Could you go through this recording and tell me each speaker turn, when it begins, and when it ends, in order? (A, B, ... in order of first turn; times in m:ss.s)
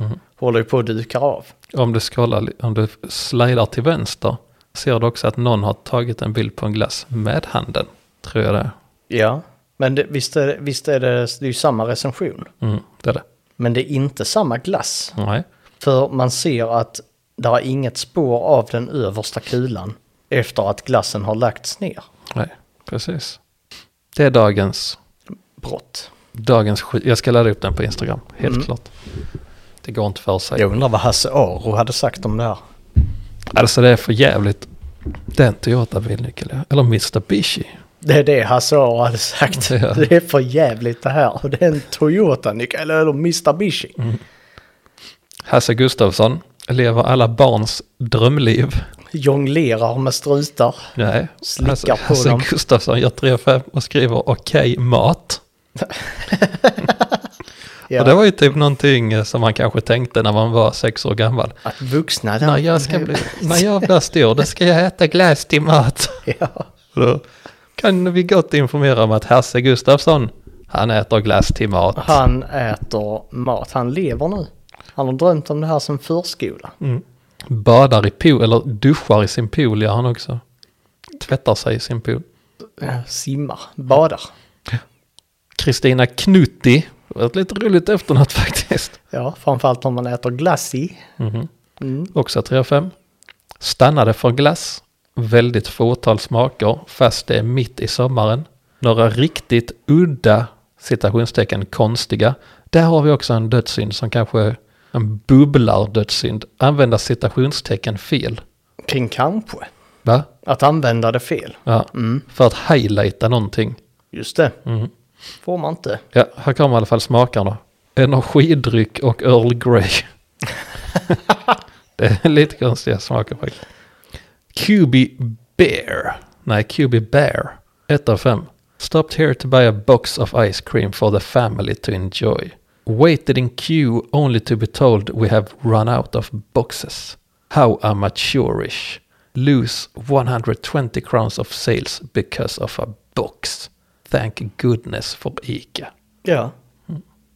0:00.4-0:01.5 A
0:01.7-0:08.7 B
0:09.1-0:12.5 A
0:12.6-0:13.2 B
0:13.6-0:15.2 A
0:15.2-0:15.4 B
0:15.8-0:22.0 A
0:22.3-0:23.4 B
0:24.1-0:25.0 B
0:25.6-0:26.1 A
0:26.3-0:28.9 B
0:28.4-0:28.7 A
0:29.8-0:30.6 B
0:30.6-0:32.6 A
0:33.5-0:37.8 B
0:38.0-0:44.0 A
0:39.5-0:40.1 B
0:45.4-0:48.8 B
0:49.1-0:50.9 A
0:51.0-0:55.4 B
0:51.4-0:52.5 A
0:55.8-0:57.2 A
0:57.9-0:58.2 A
0:57.9-1:01.6 B
1:01.6-1:03.9 A
1:02.4-1:06.2 B
1:06.2-1:06.7 A
1:06.9-1:07.2 B
1:07.8-1:12.2 B
1:12.0-1:16.7 A
1:16.8-1:20.4 B
1:21.1-1:22.2 B
1:22.8-1:24.3 A
1:25.6-1:29.0 B
1:29.1-1:31.1 A
1:31.2-1:31.5 B
1:31.8-1:32.1 A
1:32.1-1:32.9 B
1:33.6-1:48.4 B
1:48.8-1:49.7 A
1:50.4-1:52.2 A
1:51.6-1:53.8 B
1:54.1-1:54.6 A
1:54.6-1:54.9 B
1:55.4-1:56.0 A
1:56.1-2:00.1 B
2:02.0-2:03.6 B
2:04.5-2:25.9 B
2:26.2-2:26.5 A